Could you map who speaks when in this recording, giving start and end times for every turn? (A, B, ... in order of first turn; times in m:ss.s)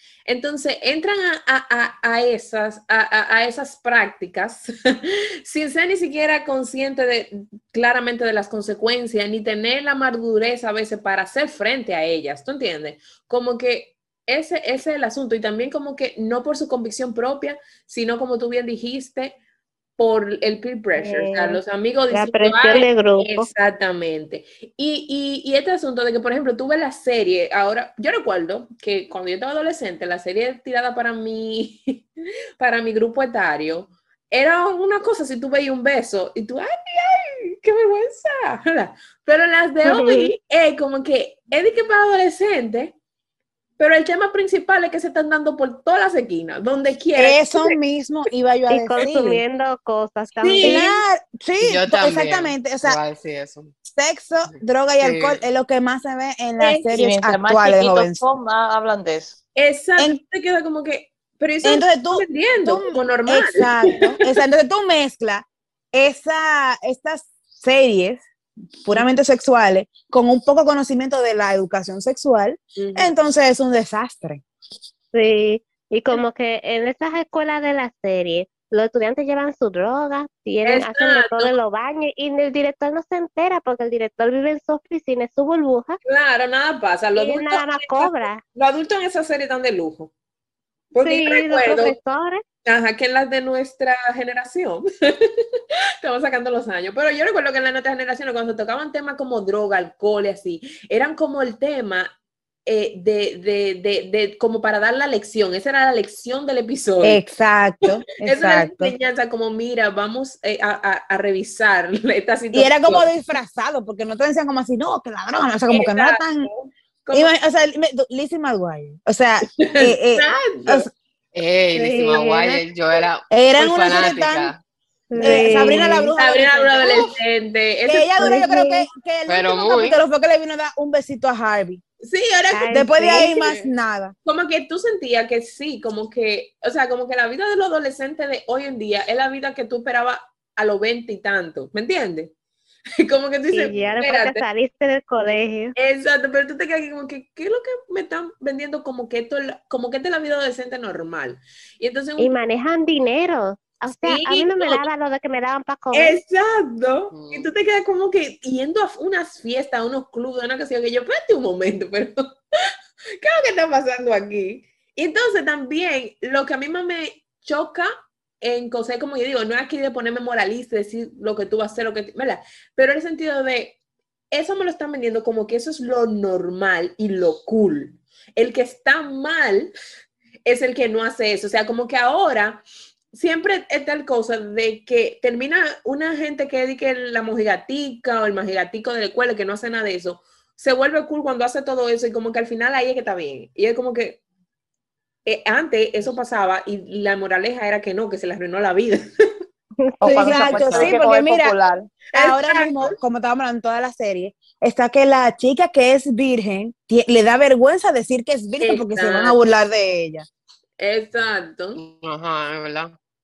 0:00.3-0:19.4 A
0:20.0-0:32.0 A
0:21.0-0:23.5 B
0:32.6-0:43.0 A
0:39.8-0:40.3 B
0:43.8-0:47.8 A
0:47.2-0:49.4 C
0:48.7-0:50.8 B
0:50.4-0:51.0 A
0:50.4-0:53.0 C
0:51.6-0:53.7 D
0:53.8-0:58.2 C
0:54.5-0:55.4 D
0:56.6-0:59.4 E
0:59.6-1:04.1 A
1:01.6-1:08.2 C
1:08.8-1:14.4 C
1:12.8-1:13.1 A
1:15.1-1:26.0 B
1:20.7-1:21.5 A
1:26.0-1:30.1 A
1:27.2-1:28.4 B
1:30.9-1:32.0 A
1:31.0-1:32.4 B
1:32.6-1:35.4 A
1:36.0-1:42.1 A
1:42.6-1:47.2 A
1:47.0-1:48.9 C
1:48.2-1:53.1 A
1:52.5-1:56.5 C
1:55.7-1:57.3 A
1:57.1-2:00.9 C
1:59.6-2:00.9 A
2:01.3-2:04.6 D
2:01.7-2:02.6 B
2:03.3-2:04.5 C
2:05.1-2:06.1 B
2:05.2-2:08.5 A
2:05.2-2:07.0 C
2:07.9-2:11.8 C
2:08.2-2:08.9 B
2:09.3-2:10.0 D
2:12.0-2:13.7 A
2:12.5-2:13.4 B
2:12.7-2:14.1 C
2:14.2-2:22.3 A
2:23.0-2:24.4 A
2:23.5-2:25.8 B
2:25.8-2:32.3 A
2:32.2-2:36.2 B
2:33.9-2:34.8 A
2:35.9-2:42.2 A
2:37.1-2:37.5 D
2:43.2-2:47.9 A
2:48.4-2:53.8 A
2:54.3-2:59.7 A
3:00.4-3:14.2 A
3:15.2-3:19.1 A
3:19.8-3:20.8 B
3:20.0-3:21.9 E
3:20.0-3:21.6 C
3:22.1-3:30.3 C
3:22.1-3:22.9 A
3:28.6-3:29.4 A
3:30.8-3:31.8 A
3:31.8-3:33.0 D